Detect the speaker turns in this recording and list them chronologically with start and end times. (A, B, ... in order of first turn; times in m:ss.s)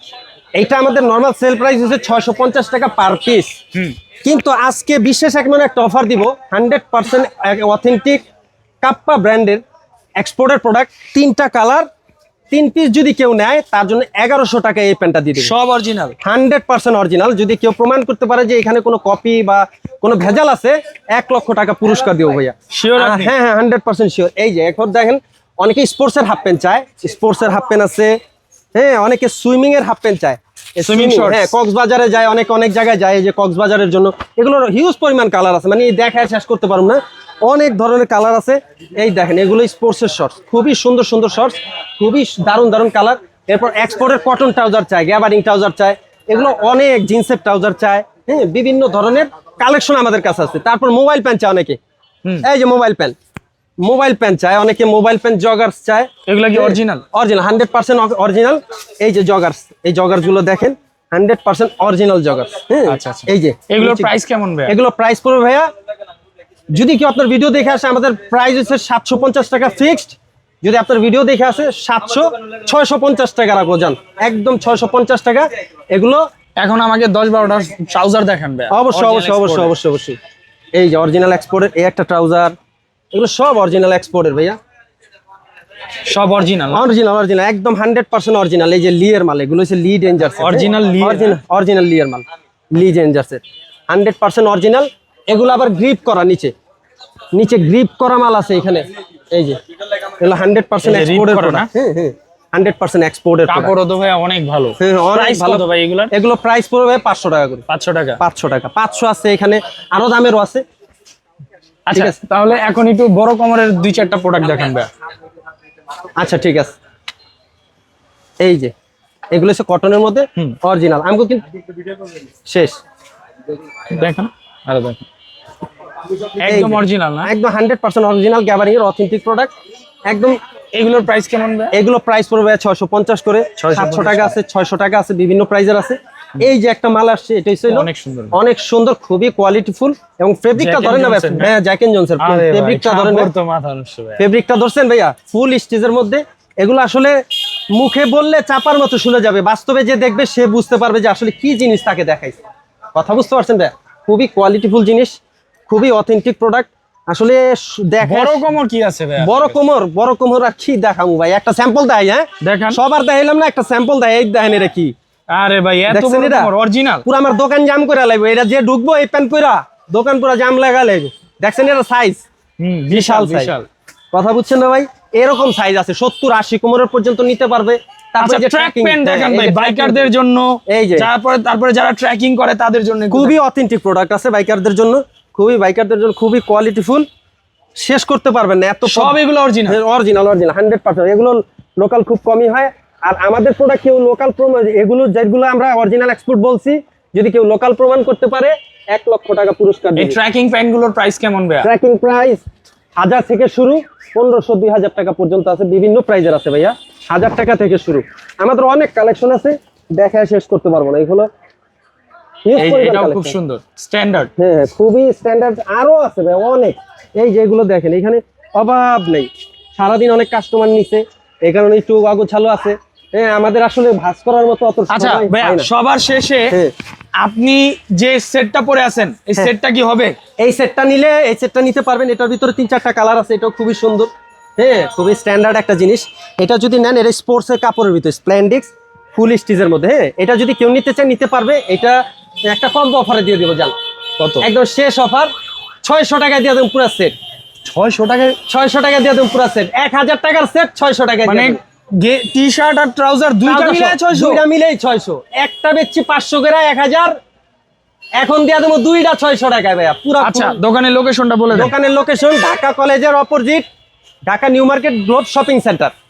0:00.6-0:03.6 A
0:04.2-0:08.2 A
0:08.8-0:09.6 A
0:10.2-0:11.9 A
0:12.5-0:15.5 A
0:15.4-0:16.2 B
0:16.2-0:28.2 A
0:22.7-0:23.3 B
0:28.8-0:51.8 A
0:30.8-0:31.5 B
0:52.4-0:53.2 A
0:53.8-1:04.1 A
0:56.3-0:57.0 B
1:02.9-1:04.8 B
1:04.7-1:05.7 A
1:06.7-1:16.2 A
1:16.6-1:19.7 B
1:18.7-1:20.2 A
1:20.8-1:22.5 A
1:23.1-1:24.6 A
1:26.1-1:26.8 B
1:26.7-1:36.5 A
1:30.4-1:31.4 B
1:37.3-1:43.7 A
1:40.8-1:41.7 B
1:43.5-1:46.1 B
1:44.8-1:47.6 A
1:47.7-1:48.2 B
1:48.2-1:50.6 A
1:51.9-1:54.9 B
1:51.9-1:52.2 A
1:56.2-1:56.7 A
1:58.4-1:58.7 A
1:59.3-2:01.4 A
2:02.5-2:02.8 A
2:03.9-2:05.0 B
2:06.4-2:07.3 B
2:06.4-2:09.5 A
2:10.1-2:10.4 A
2:10.7-2:11.7 B
2:11.7-2:23.3 A
2:13.6-2:14.4 B
2:17.7-2:18.4 B
2:20.6-2:21.5 B
2:22.2-2:24.2 B
2:24.2-2:27.2 A
2:27.7-2:32.4 A
2:33.0-2:35.2 A
2:35.7-2:38.4 A
2:38.0-2:39.6 B
2:39.2-2:44.9 A
2:42.4-2:42.8 B
2:45.3-2:47.0 B
2:45.9-2:46.5 A
2:47.0-2:52.2 A
2:52.6-2:53.7 B
2:52.9-2:53.5 A
2:54.1-3:00.1 A
2:58.2-3:03.3 B
3:00.7-3:01.1 A
3:03.1-3:07.1 A
3:07.8-3:20.2 A
3:08.9-3:09.8 B
3:20.0-3:21.7 B
3:21.6-3:22.4 A
3:23.0-3:31.3 A
3:32.4-3:33.4 A
3:32.6-3:34.3 B
3:34.4-3:45.7 A
3:44.9-3:46.6 B
3:47.2-3:50.2 B
3:50.4-4:03.8 A
4:04.2-4:04.5 B
4:04.4-4:05.3 A
4:05.8-4:07.1 A
4:07.7-4:08.4 B
4:08.5-4:11.6 A
4:11.2-4:14.4 B
4:13.4-4:17.2 A
4:18.2-4:20.6 A
4:20.2-4:21.7 B
4:21.5-4:23.6 A
4:24.3-4:25.9 A